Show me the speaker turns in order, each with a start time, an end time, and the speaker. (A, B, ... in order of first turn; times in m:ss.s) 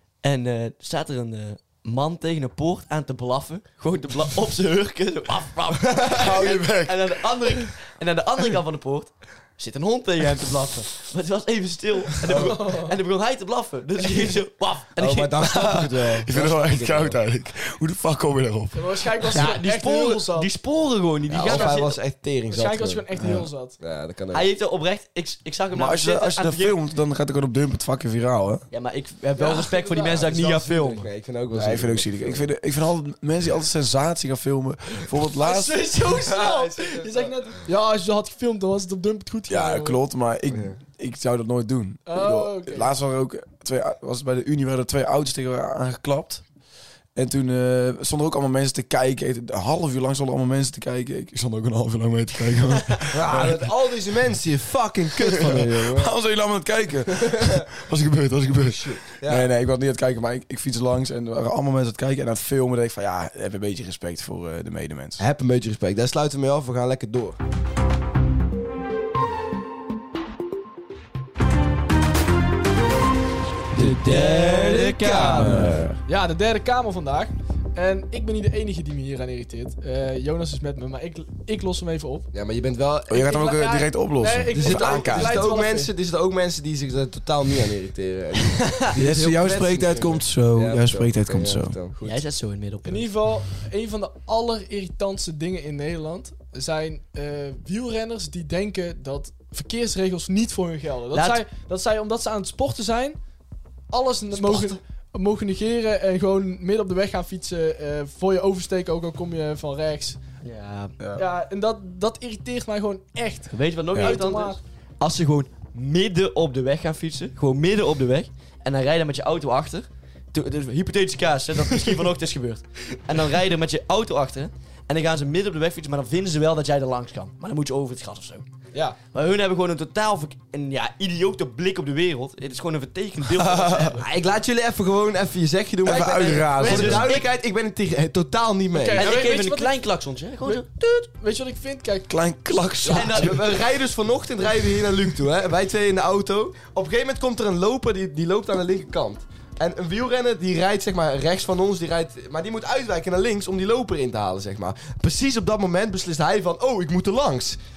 0:00.2-0:15.6 A
0:05.9-0:06.2 B
0:06.1-0:07.7 C
0:12.3-0:13.0 D
0:15.0-0:17.2 B
0:15.4-0:19.5 C
0:18.7-0:20.5 D
0:19.3-0:22.0 A
0:21.3-0:23.0 B
0:21.4-0:21.9 D
0:22.5-0:23.8 D
0:23.2-0:23.5 C
0:23.8-0:24.5 B
0:24.3-0:26.8 A
0:25.7-0:28.6 C
0:28.7-0:31.1 A
0:29.4-0:30.3 D
0:30.0-0:32.4 B
0:31.5-0:35.9 C
0:35.4-0:40.0 D
0:36.1-0:37.3 B
0:39.5-0:46.4 C
0:40.5-0:40.8 B
0:42.1-0:42.9 D
0:47.2-0:53.7 C
0:53.1-0:56.1 B
0:55.2-1:05.2 C
0:57.2-0:57.6 B
0:58.8-0:59.5 B
1:05.2-1:07.4 B
1:13.8-1:15.7 A
1:13.8-1:15.9 B
1:15.3-1:16.0 C
1:16.0-1:22.3 D
1:22.3-1:23.3 B
1:23.1-1:25.4 C
1:23.2-1:25.9 D
1:24.5-1:32.2 B
1:28.9-1:31.8 C
1:32.0-1:33.1 A
1:32.8-1:43.2 D
1:41.1-1:41.4 A
1:43.9-1:50.2 D
1:44.3-1:44.8 A
1:50.4-1:50.9 A
1:51.2-1:54.6 D
1:53.5-2:08.5 A
1:53.9-1:54.2 C
2:09.1-2:14.0 A
2:13.4-2:14.0 C
2:14.0-2:19.2 B
2:15.8-2:17.2 C
2:16.6-2:17.0 D
2:16.6-2:17.3 A
2:18.7-2:19.7 D
2:19.0-2:21.1 A
2:20.4-2:22.1 D
2:22.1-2:23.6 C
2:22.8-2:37.6 B
2:22.8-2:23.6 A